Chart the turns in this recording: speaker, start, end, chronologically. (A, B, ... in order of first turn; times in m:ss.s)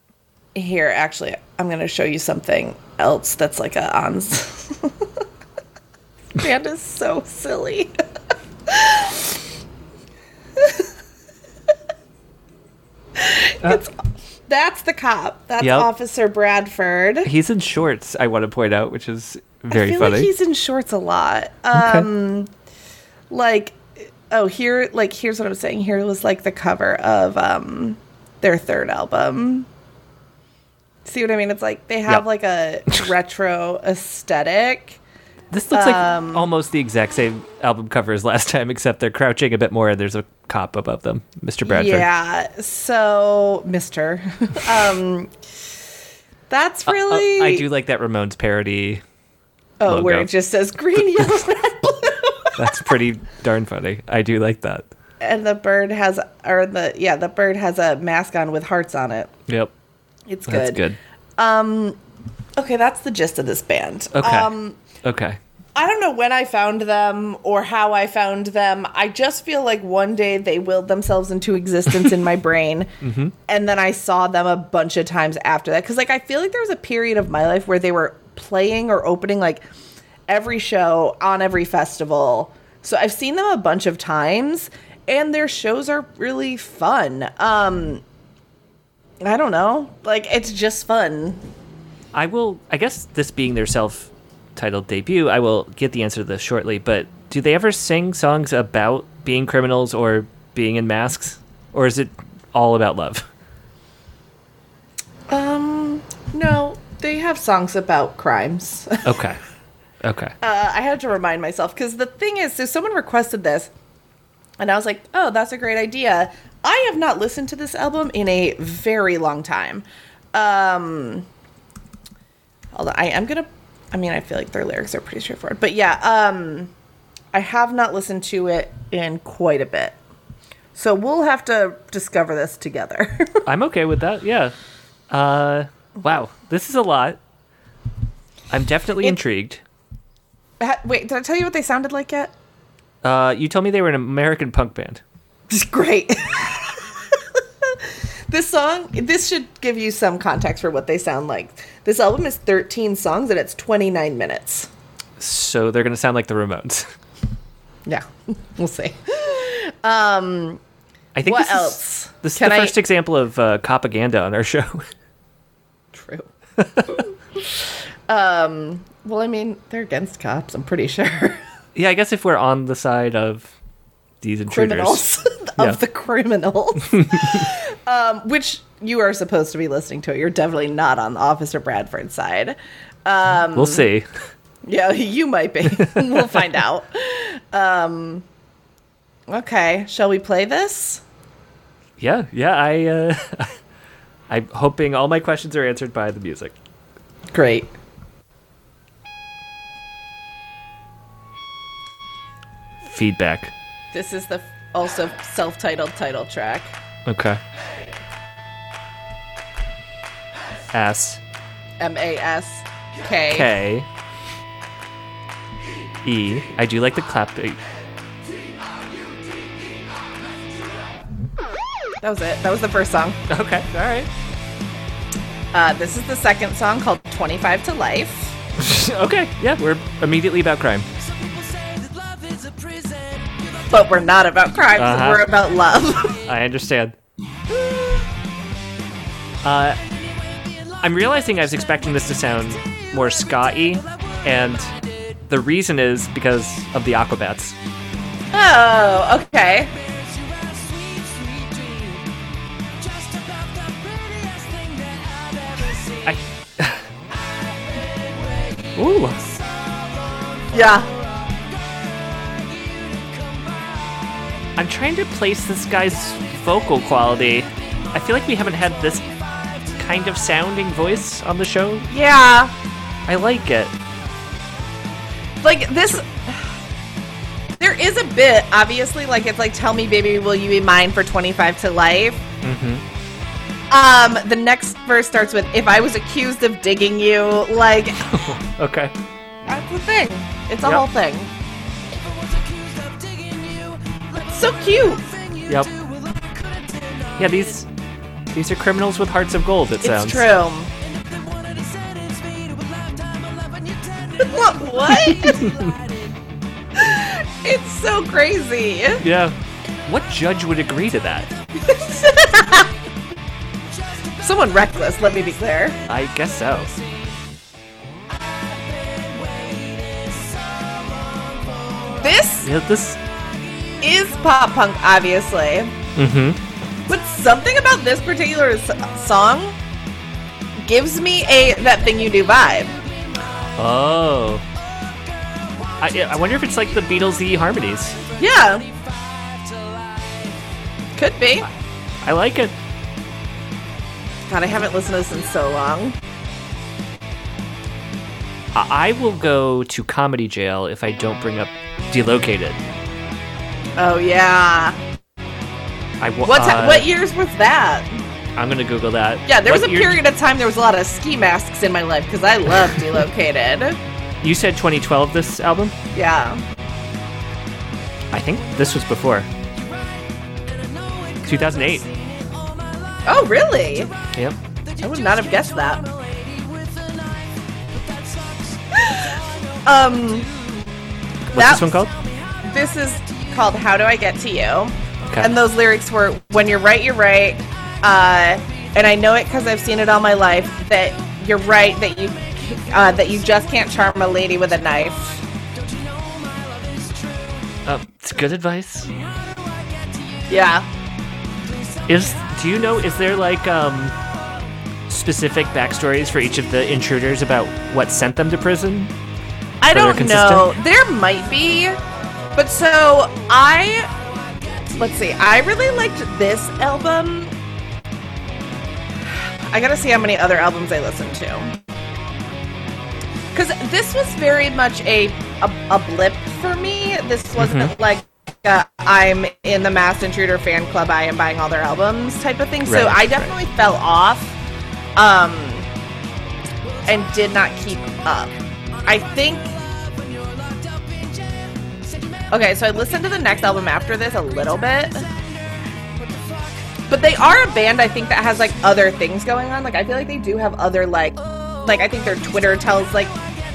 0:00.5-0:05.0 A
0:06.3-0:07.9 A
0:08.7-0:09.3 A
0:10.6-0:10.8 A
0:13.1-0:13.9 A
0:14.5-0:17.3 A
0:15.6-0:15.9 B
0:17.2-0:20.3 B
0:19.7-0:22.5 A
0:21.7-0:22.1 B
0:23.3-0:29.7 A
0:31.0-0:35.0 A
0:35.5-0:42.0 B
0:35.7-0:36.5 A
0:41.6-0:45.3 A
0:46.5-0:47.6 A
0:46.9-0:49.0 B
0:49.8-0:52.7 A
0:49.9-0:50.3 B
0:52.6-0:54.8 B
0:55.2-0:59.3 A
0:59.5-0:59.7 B
1:00.3-1:00.8 A
1:00.5-1:01.0 B
1:01.4-1:02.0 A
1:02.6-1:04.8 A
1:04.1-1:05.4 B
1:05.8-1:12.9 A
1:13.0-1:13.3 B
1:13.5-1:19.6 A
1:20.3-1:28.0 A
1:29.2-1:31.4 A
1:32.1-1:43.2 B
1:45.3-1:49.1 A
1:49.0-1:49.4 B
1:50.0-1:50.3 B
1:50.4-1:53.7 A
1:54.6-2:01.2 A
2:02.7-2:06.7 A
2:07.3-2:10.0 A
2:10.7-2:13.4 A
2:13.4-2:14.5 B
2:15.1-2:17.2 B
2:18.5-2:19.6 B
2:20.6-2:22.3 A
2:23.0-2:25.0 B
2:25.5-2:34.7 A
2:35.2-2:36.9 B
2:37.8-2:40.6 A
2:41.1-2:44.8 B
2:41.2-2:42.8 A
2:45.9-2:46.3 A
2:46.6-2:46.9 B
2:46.9-2:47.4 A
2:48.1-2:51.4 A
2:51.7-2:53.5 B
2:54.2-2:55.0 B
2:54.5-3:03.9 A
2:57.0-2:57.4 B
3:03.5-3:04.1 B
3:04.6-3:08.2 A
3:09.3-3:11.0 A
3:12.0-3:13.5 B
3:14.3-3:16.5 B
3:17.3-3:17.7 A
3:22.8-3:23.5 B
3:23.9-3:26.7 A
3:27.0-3:27.4 B
3:30.7-3:31.2 B
3:31.8-3:33.5 A
3:33.3-3:33.9 B
3:36.0-3:37.6 B
3:42.0-3:43.2 A
3:43.3-3:44.1 B
3:45.5-3:48.4 A
3:48.6-3:50.8 B
3:51.0-3:54.1 C
3:53.7-3:56.2 A
3:54.8-3:55.3 B
3:56.2-3:57.0 B
3:59.4-3:59.8 B
4:00.2-4:05.2 C
4:00.8-4:04.7 B
4:05.3-4:07.5 B
4:08.3-4:09.7 A
4:09.7-4:12.1 C
4:12.7-4:16.2 C
4:16.0-4:16.8 B
4:17.1-4:24.5 C
4:18.8-4:19.2 B
4:20.5-4:20.9 A
4:24.6-4:29.0 B
4:27.4-4:30.2 C
4:29.8-4:31.9 B
4:31.9-4:32.5 A
4:33.1-4:33.7 B
4:35.4-4:36.5 A
4:37.6-4:42.2 A
4:42.4-4:42.8 B
4:43.7-4:48.1 A
4:48.0-4:48.9 B
4:49.4-4:51.3 A
4:52.0-4:57.5 C
4:54.2-4:55.1 A
4:57.2-4:57.7 B
4:58.3-5:00.2 B
4:59.8-5:00.7 A
5:00.8-5:06.2 C
5:04.2-5:05.5 A
5:05.1-5:05.6 B
5:06.7-5:09.0 A
5:09.0-5:11.3 B
5:11.6-5:12.7 C
5:11.7-5:12.7 A
5:13.9-5:14.5 C
5:14.2-5:15.8 A
5:15.9-5:16.7 B
5:18.1-5:22.2 C
5:22.0-5:22.5 A
5:22.4-5:23.0 B
5:23.0-5:24.0 C
5:23.8-5:25.8 A
5:26.0-5:26.4 B
5:26.9-5:29.6 A
5:30.6-5:32.8 A
5:33.1-5:33.5 C
5:33.6-5:34.4 B
5:34.7-5:37.1 C
5:35.8-5:38.0 B
5:37.8-5:40.4 C
5:38.2-5:38.7 A
5:41.0-5:41.5 A
5:42.0-5:42.5 B
5:44.3-5:46.0 A
5:48.5-5:52.6 B
5:53.8-5:54.8 A
5:56.0-5:56.9 B
5:56.2-5:58.0 A
5:58.4-6:00.0 B
5:59.2-6:03.8 A
6:04.2-6:05.8 B
6:05.9-6:06.4 A
6:08.1-6:09.3 B
6:09.5-6:13.9 C
6:11.2-6:11.8 B
6:13.0-6:13.9 A
6:14.6-6:20.6 C
6:14.8-6:15.8 A
6:18.7-6:20.3 A
6:21.3-6:21.9 B
6:21.3-6:21.7 A
6:21.6-6:22.5 C
6:22.4-6:35.2 A
6:25.0-6:25.3 B
6:35.5-6:37.6 C
6:37.6-6:38.9 B
6:38.9-6:40.6 C
6:40.3-6:40.6 A
6:41.5-6:42.4 C
6:41.9-6:44.0 B
6:44.9-6:48.9 B
6:49.6-6:51.8 A
6:49.7-6:50.5 B
6:52.4-6:53.9 A
6:54.7-6:57.3 A
6:59.5-7:01.6 A
7:03.3-7:14.4 A
7:07.4-7:07.7 B
7:12.6-7:13.3 B
7:15.0-7:15.7 A
7:16.8-7:18.3 A
7:18.8-7:19.5 A
7:19.0-7:22.2 C
7:22.3-7:25.1 A
7:24.9-7:25.4 C
7:26.0-7:26.7 C
7:26.9-7:33.1 A